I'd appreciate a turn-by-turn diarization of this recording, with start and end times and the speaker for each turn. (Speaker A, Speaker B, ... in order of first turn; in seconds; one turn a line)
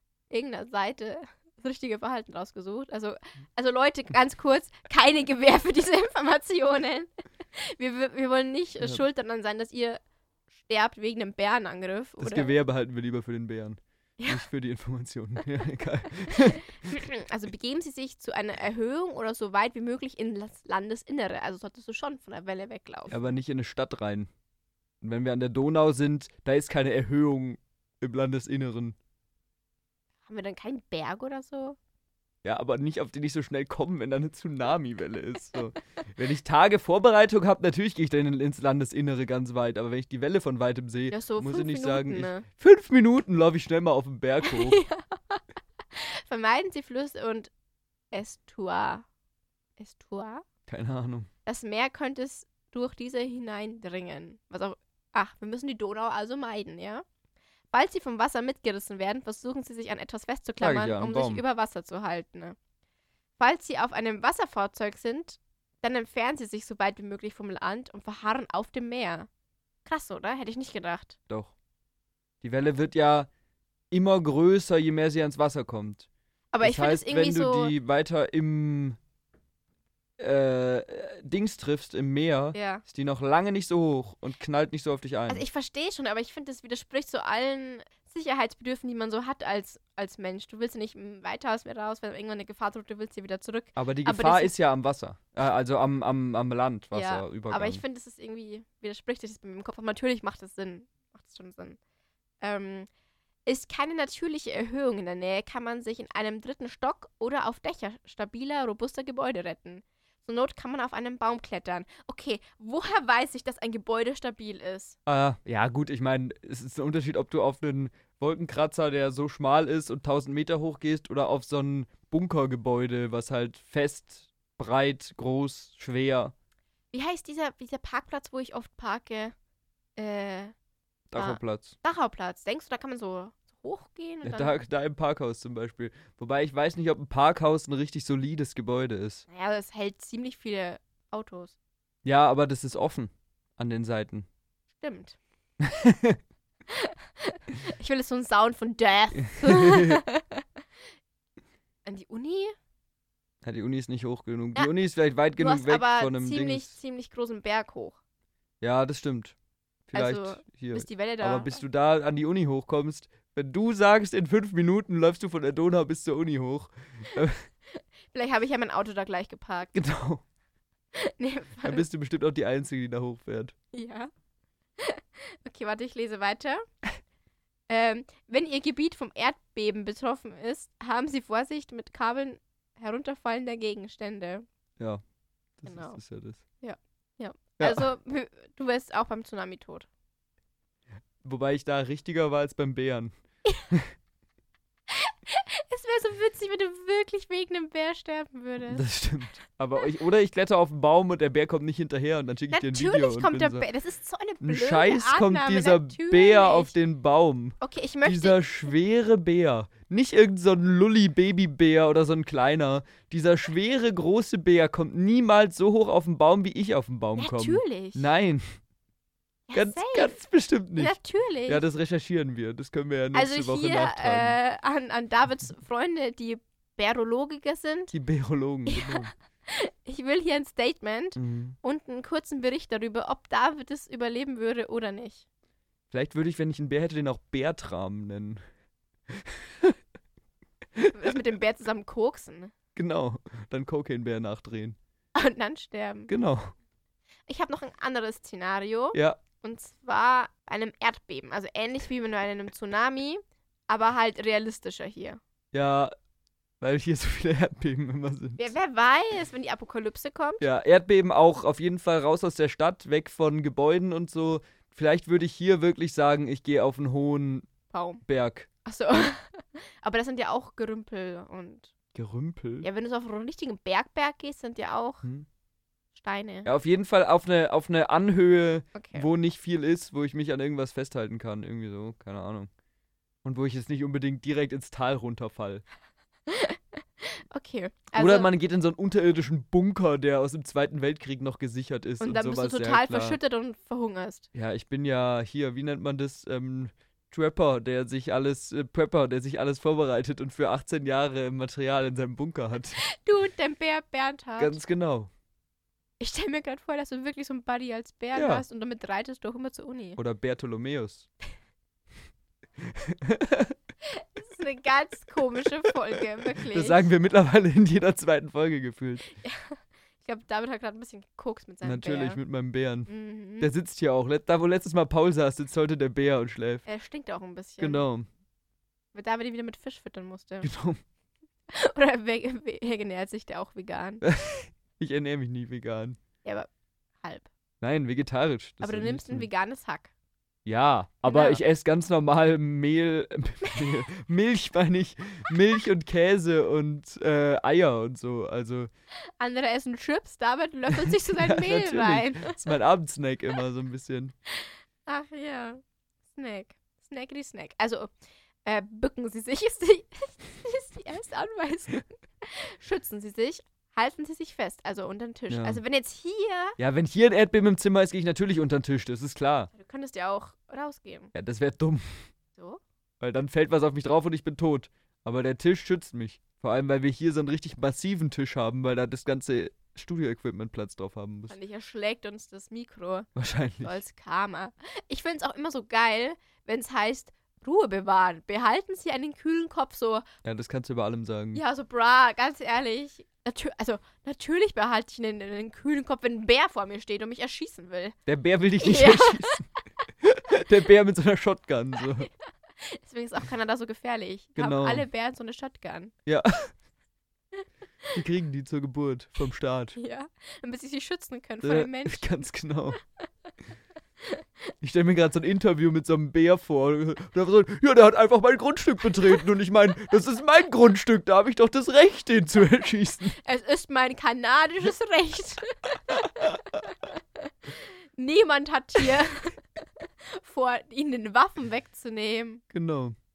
Speaker A: 0.3-10.0
Speaker A: 10.6-12.5
Speaker B: 12.2-17.0
Speaker A: 16.3-23.3
Speaker B: 23.1-24.3
Speaker B: 25.0-28.9
Speaker A: 30.3-31.8
Speaker B: 32.4-44.8
Speaker A: 41.1-42.5
Speaker A: 44.4-45.4
Speaker A: 45.9-47.5
Speaker A: 48.1-49.0
Speaker A: 49.8-50.4
Speaker B: 50.7-51.3
Speaker A: 51.4-57.0
Speaker A: 57.7-62.6
Speaker B: 60.6-61.4
Speaker A: 63.4-69.3
Speaker A: 69.8-71.2
Speaker B: 72.4-73.3
Speaker B: 73.9-76.1
Speaker A: 76.5-77.7
Speaker B: 76.6-79.0
Speaker B: 80.2-85.4
Speaker A: 82.5-82.8
Speaker A: 85.3-94.5
Speaker B: 93.8-97.8
Speaker A: 96.9-101.8
Speaker A: 102.4-102.9
Speaker A: 103.5-115.0
Speaker B: 115.0-126.3
Speaker A: 126.9-129.3
Speaker A: 129.9-130.5
Speaker B: 131.1-131.7
Speaker A: 131.2-134.6
Speaker B: 134.2-139.2
Speaker A: 139.3-141.6
Speaker B: 142.0-144.3
Speaker A: 144.8-145.2
Speaker B: 145.6-146.2
Speaker A: 146.7-150.4
Speaker B: 149.2-150.0
Speaker A: 151.8-152.5
Speaker B: 153.4-156.7
Speaker A: 155.4-158.0
Speaker B: 158.6-159.3
Speaker B: 159.9-167.4
Speaker A: 159.9-161.6
Speaker A: 167.7-169.8
Speaker B: 169.7-170.2
Speaker A: 170.9-171.8
Speaker B: 171.6-173.5
Speaker A: 173.7-174.1
Speaker A: 174.8-176.6
Speaker A: 177.7-184.4
Speaker B: 185.6-186.4
Speaker A: 185.7-186.0
Speaker A: 186.6-189.9
Speaker B: 187.6-187.9
Speaker B: 191.2-193.1
Speaker A: 194.9-198.8
Speaker B: 198.7-203.7
Speaker A: 202.5-206.7
Speaker B: 204.4-218.5
Speaker A: 207.6-208.4
Speaker A: 217.2-218.1
Speaker A: 219.5-220.2
Speaker B: 219.5-220.9
Speaker A: 220.8-221.6
Speaker B: 221.5-224.4
Speaker A: 223.1-227.9
Speaker B: 227.9-229.1
Speaker A: 228.7-235.2
Speaker B: 231.2-231.6
Speaker B: 235.9-238.4
Speaker B: 239.1-239.7
Speaker B: 240.8-241.1
Speaker A: 240.9-242.5
Speaker B: 242.8-244.8
Speaker A: 245.1-246.1
Speaker B: 246.1-246.5
Speaker A: 247.3-255.2
Speaker B: 248.9-249.2
Speaker B: 255.5-255.9
Speaker B: 256.6-258.5
Speaker A: 258.4-260.4
Speaker B: 260.4-267.5
Speaker A: 267.7-268.0
Speaker B: 268.1-268.5
Speaker A: 268.6-271.7
Speaker B: 271.9-272.7
Speaker A: 272.6-275.0
Speaker A: 275.9-276.5
Speaker B: 276.4-282.5
Speaker A: 278.7-279.1
Speaker B: 283.2-285.6
Speaker A: 286.3-288.3
Speaker B: 287.9-293.2
Speaker A: 292.0-294.3
Speaker B: 294.3-302.8
Speaker A: 302.8-304.6
Speaker B: 304.4-305.1
Speaker A: 306.0-310.0
Speaker B: 308.1-308.4
Speaker B: 310.0-311.1
Speaker B: 312.6-313.5
Speaker A: 313.8-316.9
Speaker B: 316.4-319.0
Speaker A: 319.1-322.2
Speaker B: 321.6-322.9
Speaker A: 322.9-323.5
Speaker B: 323.4-326.6
Speaker A: 326.6-327.8
Speaker B: 327.6-328.1
Speaker A: 328.9-330.5
Speaker B: 330.4-330.8
Speaker A: 331.5-334.0
Speaker B: 334.0-336.0
Speaker A: 336.2-336.5
Speaker A: 337.0-337.3
Speaker B: 337.6-339.3
Speaker A: 338.6-339.9
Speaker B: 340.4-348.7
Speaker A: 341.1-341.4
Speaker A: 343.4-343.7
Speaker A: 349.2-352.4
Speaker B: 350.8-354.1
Speaker A: 354.9-355.6
Speaker A: 356.1-357.9
Speaker A: 358.4-366.6
Speaker B: 365.3-365.6
Speaker B: 366.6-369.5
Speaker A: 369.5-371.1
Speaker B: 371.1-372.0
Speaker A: 372.4-372.6
Speaker B: 373.0-381.4
Speaker A: 381.3-383.1
Speaker B: 383.1-383.8
Speaker A: 383.6-390.0
Speaker B: 390.2-391.4
Speaker A: 391.3-398.0
Speaker B: 398.1-399.4
Speaker A: 398.6-399.4
Speaker B: 400.0-402.1
Speaker A: 402.6-405.9
Speaker B: 404.4-404.9
Speaker B: 406.1-406.5
Speaker B: 407.9-409.8
Speaker A: 409.8-412.1
Speaker B: 411.4-412.8
Speaker B: 414.6-423.2
Speaker A: 423.2-432.4
Speaker B: 432.5-432.9